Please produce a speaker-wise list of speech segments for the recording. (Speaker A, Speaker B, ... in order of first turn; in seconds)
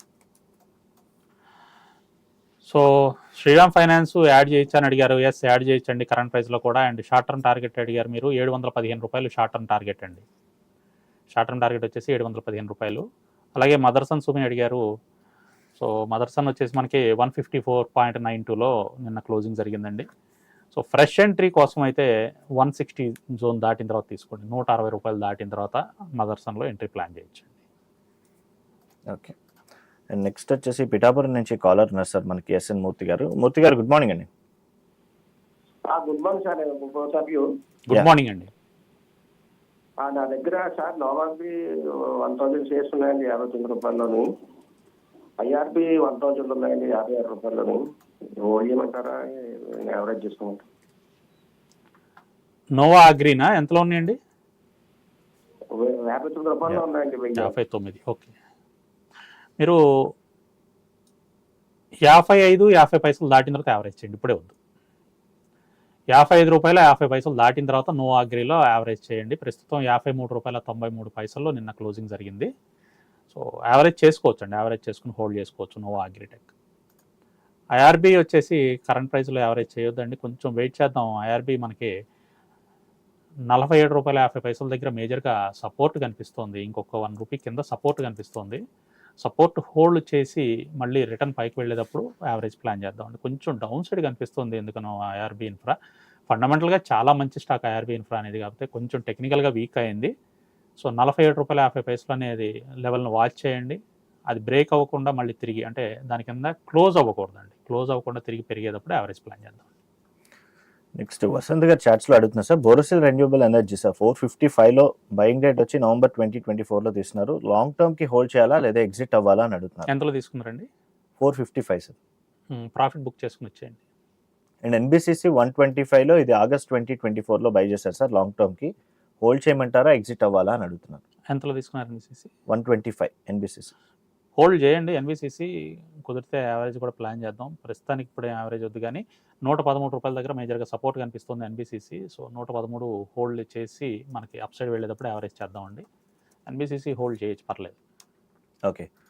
Speaker A: 2.7-10.2, 11.3-13.1, 13.6-14.8, 15.8-20.1, 20.7-27.6, 37.9-38.5, 52.8-54.2, 57.4-58.3, 62.0-64.5, 66.1-72.5, 73.3-76.5, 77.8-81.9, 83.5-88.6, 89.2-95.8, 96.3-100.1, 100.8-109.7, 119.9-120.7, 122.5-123.8, 131.3-132.3, 134.4-135.5, 136.1-145.9, 146.5-147.8
Speaker B: 29.1-29.4, 30.1-34.3, 111.0-119.9, 121.2-122.0, 124.6-131.0, 132.5-133.7
Speaker C: 35.9-37.5, 40.0-41.5, 42.2-44.3, 45.4-47.8, 48.4-50.6, 55.7-57.5